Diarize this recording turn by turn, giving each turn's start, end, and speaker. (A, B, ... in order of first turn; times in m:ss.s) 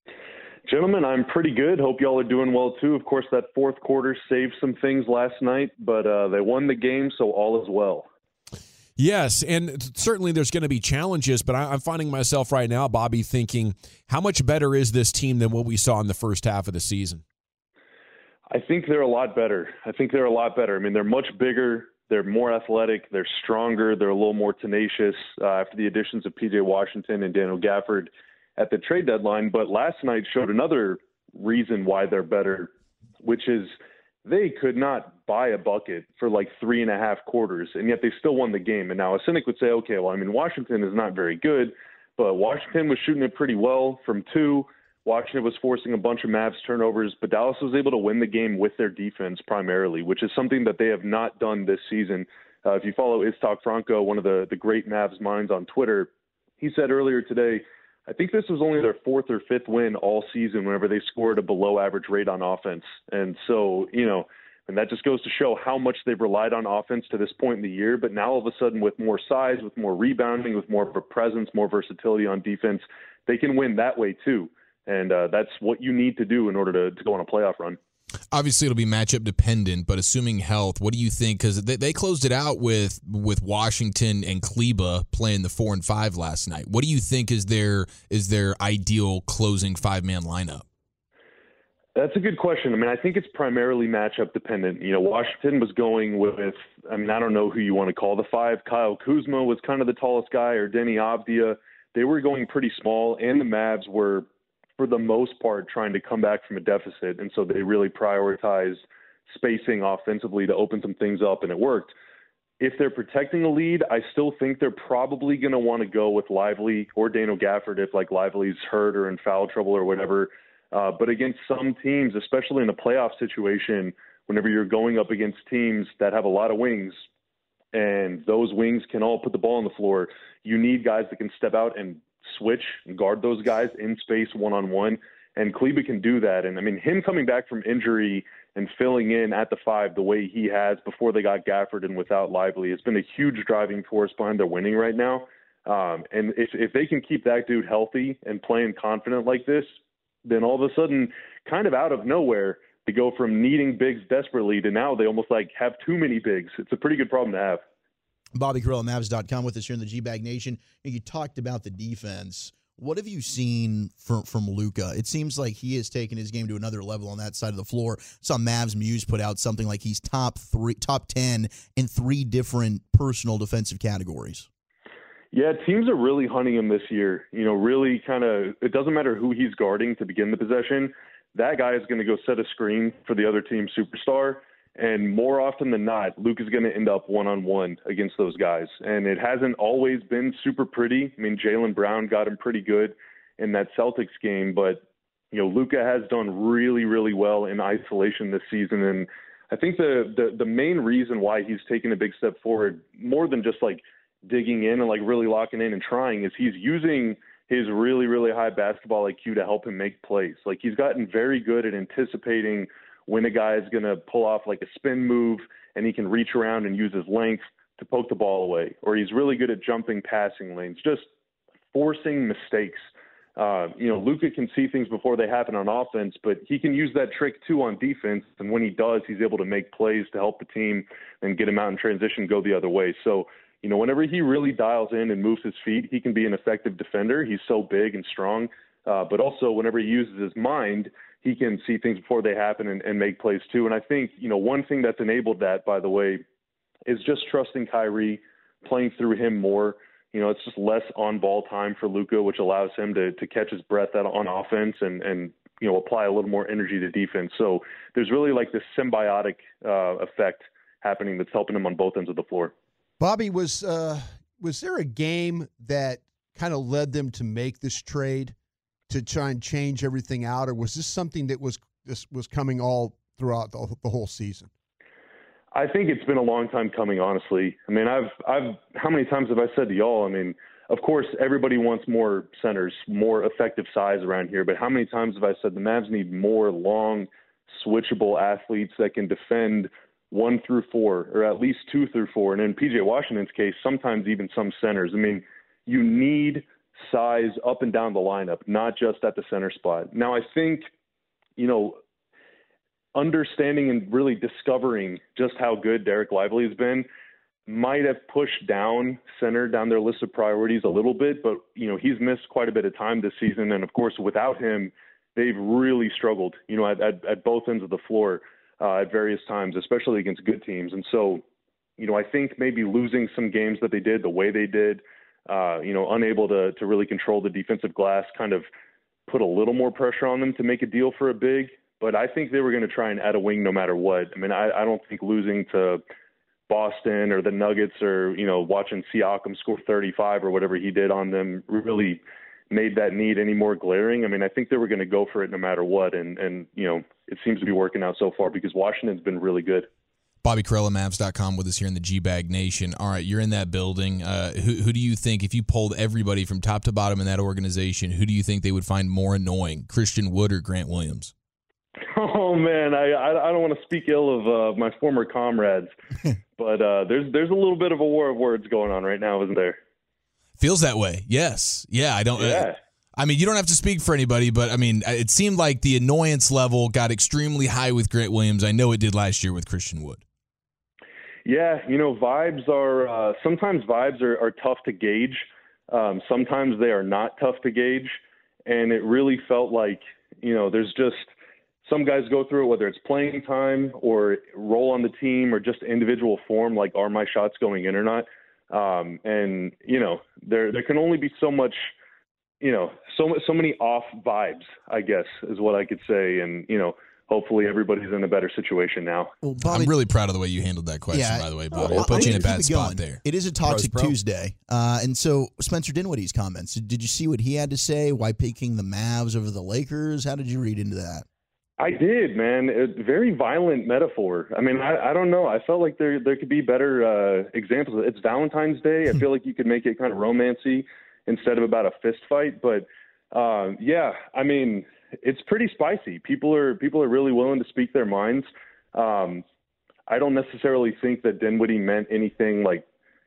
0:00.7-0:08.0 A
0:09.0-0:17.2 B
0:18.5-1:17.8 A
1:18.3-1:30.6 C
1:32.0-1:44.3 A
1:44.8-1:51.9 A
1:52.6-2:07.0 A
2:07.7-2:29.7 A
2:30.2-2:37.6 A
2:38.3-2:54.5 D
2:55.3-3:41.1 A
3:41.7-3:42.8 A
3:43.4-4:06.2 A
4:06.9-4:22.5 A
4:23.0-4:28.3 E
4:28.9-4:34.5 E
4:35.5-5:00.7 A
5:01.4-5:01.8 A
5:02.9-5:06.9 A
5:07.5-5:21.2 A
5:21.8-5:28.5 A
5:29.1-5:35.8 A
5:36.5-5:49.7 A
5:50.2-6:01.1 C
6:01.9-6:05.7 A
6:06.4-6:09.6 A
6:10.4-6:20.0 C
6:12.2-6:12.6 A
6:21.2-6:31.1 A
6:31.6-6:41.6 A
6:42.4-6:49.1 A
6:49.2-6:49.7 D
6:49.4-6:53.9 C
6:50.9-7:01.0 D
7:01.6-7:19.2 A
7:19.9-7:22.6 A